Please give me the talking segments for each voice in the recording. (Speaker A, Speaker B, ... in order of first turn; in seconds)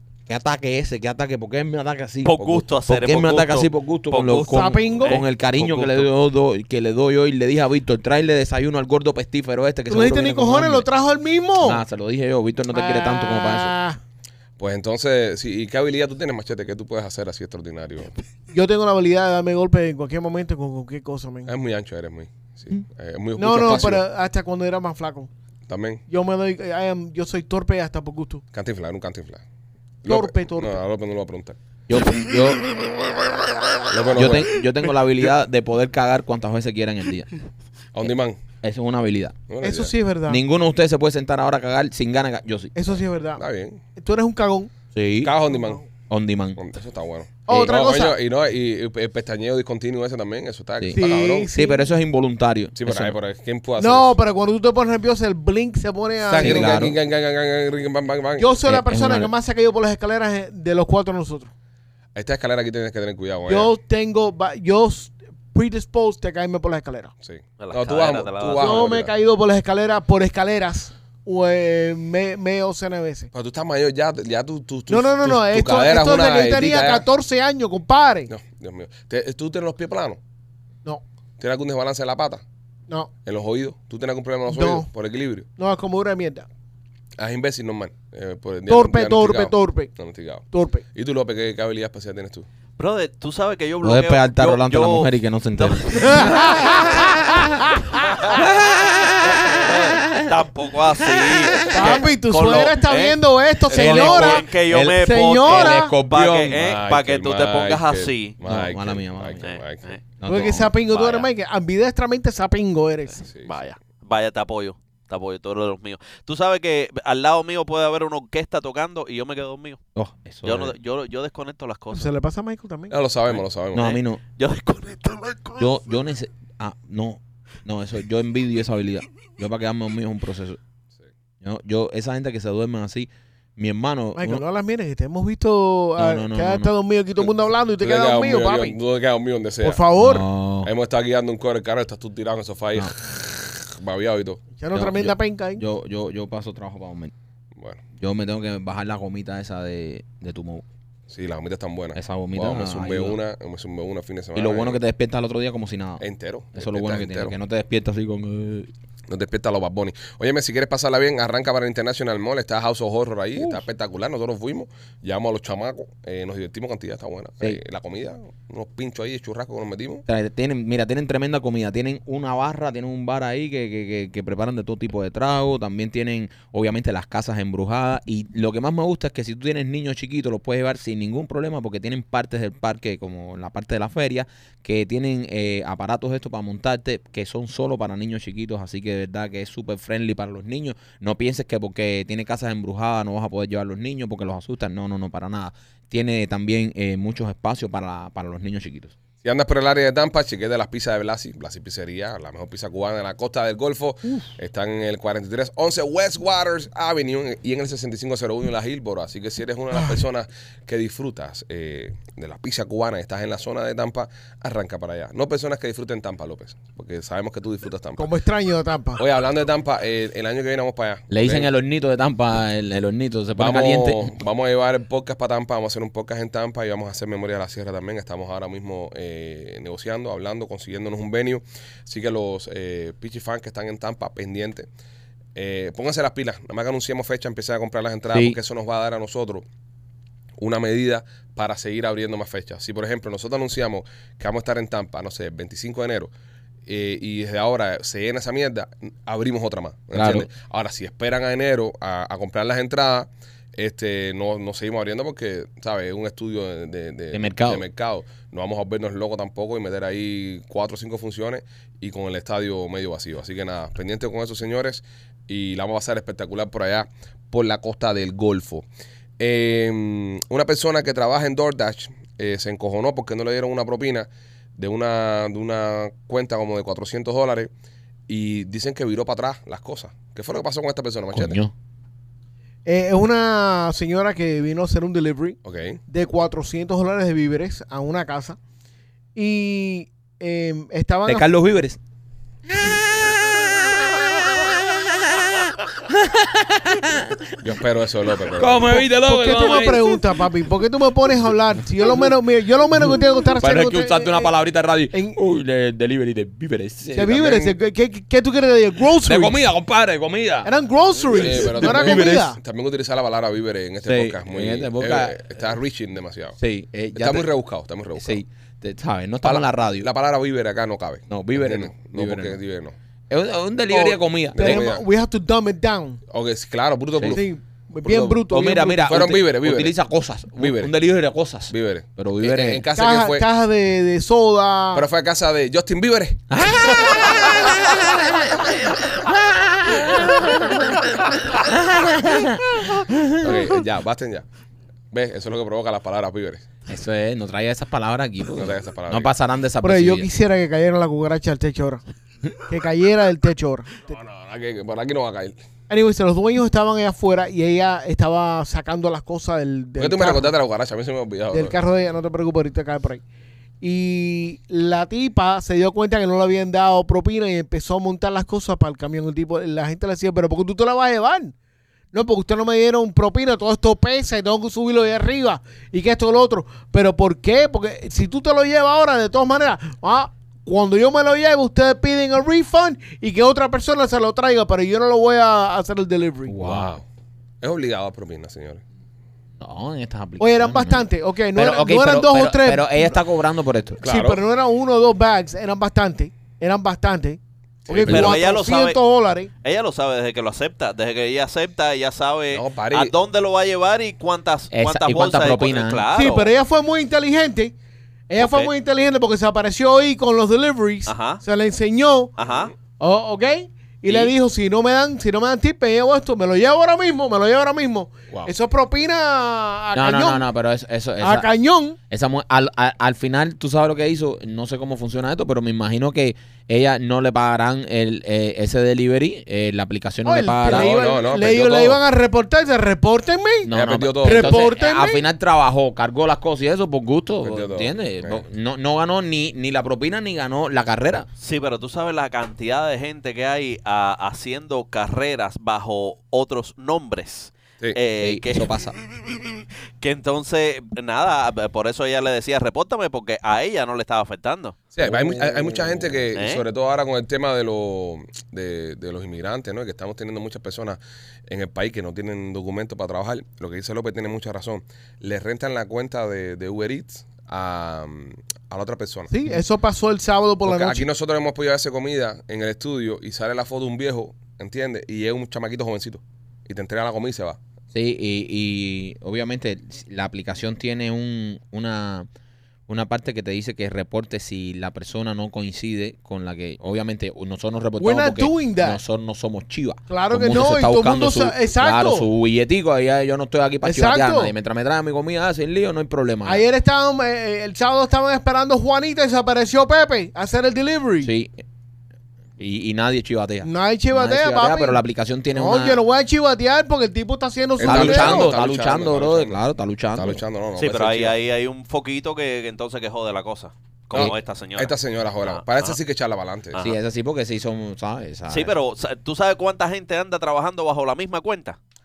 Speaker A: 0.3-10.9, 11.6-13.7, 31.9-32.6, 34.1-37.3, 38.6-39.4, 40.3-42.8, 44.9-45.3, 46.1-46.6, 50.8-53.1, 56.4-57.0, 58.6-59.3, 93.8-97.4, 98.4-100.3, 101.0-102.0, 103.7-106.6, 108.4-109.6, 110.2-110.7, 119.9-120.7, 123.7-124.2, 125.6-130.6, 131.4-134.4, 136.0-136.7, 140.0-140.7, 144.7-147.1, 148.0-150.6, 151.9-153.2, 154.3-156.0, 156.5-158.7, 163.4-163.6, 170.1-198.9, 221.1-224.1, 238.1-238.4, 249.9-250.3, 257.1-257.6, 281.1-281.5, 291.1-291.8, 292.5-294.9, 295.9-297.4, 298.3-300.3, 301.8-302.1, 302.7-307.5, 308.9-310.5, 311.1-312.3, 313.8-315.2, 316.4-317.3, 318.0-319.9, 321.1-322.4, 323.1-324.7, 328.3-332.6, 336.3-338.1, 338.9-340.8, 341.5-343.3, 346.7-350.1, 386.3-386.7, 389.4-393.8, 397.9-398.2, 404.5-405.9, 419.7-421.3, 421.9-430.8, 433.4-441.1, 448.0-448.8, 454.8-456.0, 477.7-482.1, 482.7-496.4, 501.0-501.3, 502.4-505.8, 507.6-510.2, 516.6-518.5
Speaker B: 2.2-6.0, 67.6-68.9, 92.8-96.4, 98.3-108.4, 109.4-110.1, 110.8-111.3, 113.4-119.8, 120.4-122.1, 124.3-125.7, 397.9-398.8, 399.4-406.3, 408.2-408.5, 410.9-411.2, 412.2-412.5, 413.9-414.1, 441.2-448.7, 449.8-454.6, 456.1-456.4, 510.6-514.7, 515.2-515.8, 518.3-521.6
Speaker C: 4.5-5.2, 9.9-11.8, 12.7-14.0, 18.5-21.5, 23.4-25.3, 26.1-28.4, 30.1-30.8, 39.6-40.4, 42.7-43.4, 44.0-44.7, 45.5-45.8, 47.5-48.1, 50.9-51.9, 53.8-56.9, 58.4-61.5, 63.5-67.1, 68.6-73.3, 74.9-78.3, 84.5-84.8, 85.6-86.5, 88.7-89.9, 90.5-90.8, 96.0-97.0, 101.7-105.9, 110.2-113.2, 121.9-122.9, 134.2-138.8, 139.6-140.2, 144.6-145.6, 218.0-219.0, 282.6-285.4, 285.9-288.4, 289.1-291.2, 298.7-304.3, 304.9-305.2, 306.9-309.4, 310.4-312.4, 323.7-326.0, 327.1-328.8, 332.8-334.8, 349.6-351.8, 352.4-353.8, 355.7-360.3, 361.3-363.0, 363.6-371.3, 371.9-386.3, 390.2-393.0, 393.8-399.3, 405.9-407.5, 408.1-412.1, 412.8-420.2, 421.0-421.8, 430.1-433.5, 434.0-435.0, 469.1-470.9, 487.8-488.8, 489.9-492.1, 493.6-494.3, 496.2-501.1, 503.4-504.8, 505.3-508.3
Speaker D: 14.6-18.1, 21.4-24.0, 25.7-26.0, 28.5-29.4, 30.0-31.6, 33.9-34.5, 37.9-38.4, 39.5-39.9, 43.4-43.8, 45.2-45.8, 46.5-51.5, 52.7-54.2, 56.2-58.5, 62.1-63.7, 67.2-69.1, 73.3-77.0, 78.3-80.2, 81.4-82.4, 83.2-85.5, 87.2-92.5, 106.5-109.9, 113.2-113.5, 122.9-124.0, 137.2-139.8, 140.6-144.4, 147.6-147.8, 151.1-154.8, 156.0-157.3, 159.1-170.0, 199.2-218.1, 219.0-221.5, 223.4-234.7, 235.3-239.4, 240.4-246.1, 246.7-268.6, 269.2-277.5, 278.1-281.4, 285.4-285.8, 297.4-298.9, 311.1-316.4, 316.9-318.2, 319.2-322.7, 324.3-324.8, 326.1-327.2, 327.8-328.2, 328.8-329.7, 330.4-330.7, 331.5-333.2, 334.7-336.7, 343.2-344.2, 344.9-346.4, 348.4-349.1, 353.9-355.4, 359.8-361.6, 386.4-386.8, 387.4-388.6, 393.8-394.2, 397.6-398.1, 402.3-402.9, 430.5-431.8, 433.5-434.4, 437.2-438.2, 454.7-469.1, 470.4-477.4, 507.6-509.4, 509.9-511.1, 513.9-516.6